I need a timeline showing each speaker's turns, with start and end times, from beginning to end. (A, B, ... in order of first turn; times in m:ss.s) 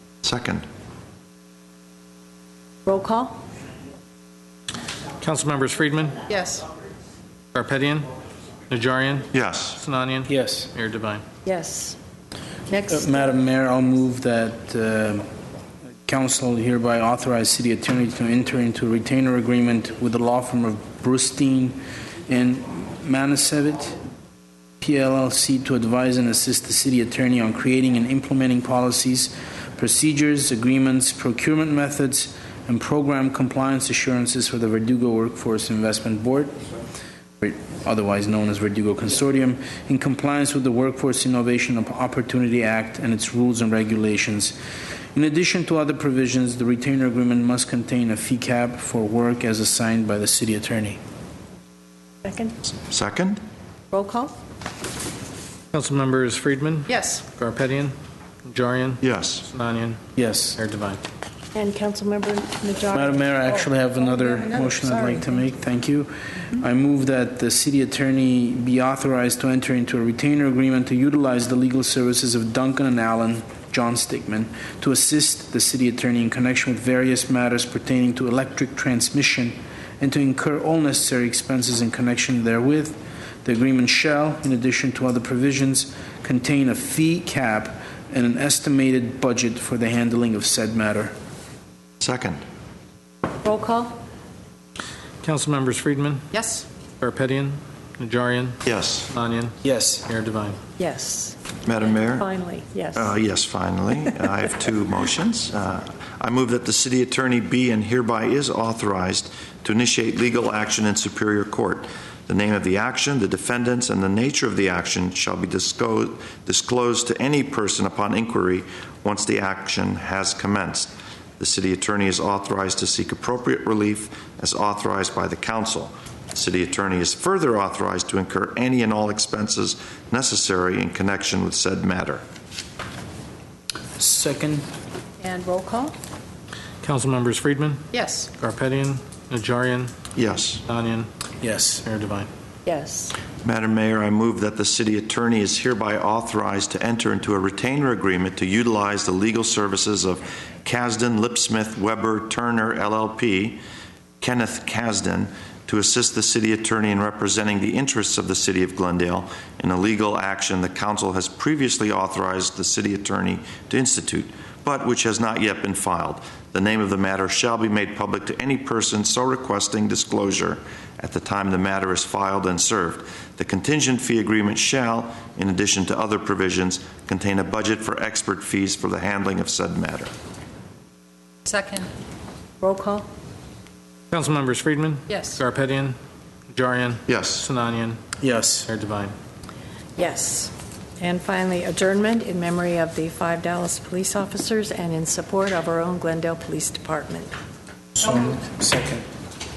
0:00.2-0:00.6 A
0:02.8-0:03.4 B
0:05.2-0:06.2 C
0:06.3-0:06.6 D
0:07.5-0:08.1 C
0:08.7-0:11.2 C
0:09.3-0:09.8 A
0:10.3-0:10.7 E
0:11.4-0:12.0 B
0:12.7-0:13.2 B
0:12.9-0:15.3 E
0:16.0-0:24.0 E
0:24.8-0:36.6 E
0:37.4-0:44.6 E
0:45.1-0:51.0 E
0:52.2-0:52.5 B
0:52.6-0:53.4 A
0:53.9-0:54.3 B
0:55.7-0:57.9 C
0:56.9-0:57.2 D
0:58.4-1:00.0 C
0:59.0-0:59.4 A
1:00.2-1:00.6 E
1:00.6-1:01.0 C
1:01.5-1:05.5 B
1:02.9-1:31.1 E
1:32.0-1:32.4 A
1:33.4-1:34.0 B
1:35.2-1:36.3 C
1:36.3-1:36.6 D
1:37.0-1:40.6 C
1:38.6-1:39.1 A
1:39.6-1:40.0 E
1:40.8-1:43.1 B
1:41.6-1:42.3 A
1:42.9-2:12.2 A
2:14.0-2:14.7 E
2:15.2-2:15.9 B
2:16.8-2:17.8 C
2:17.9-2:18.3 D
2:18.4-2:19.9 C
2:20.1-2:20.6 A
2:20.7-2:21.1 C
2:21.4-2:21.8 E
2:21.8-2:22.3 C
2:22.6-2:23.1 B
2:23.4-2:33.6 A
2:34.2-3:00.1 A
3:01.4-3:01.9 D
3:02.6-3:03.0 B
3:04.1-3:06.0 C
3:05.1-3:05.4 D
3:06.5-3:08.0 C
3:07.1-3:07.4 A
3:08.2-3:08.7 E
3:08.7-3:09.1 C
3:10.0-3:17.3 B
3:17.9-3:19.1 E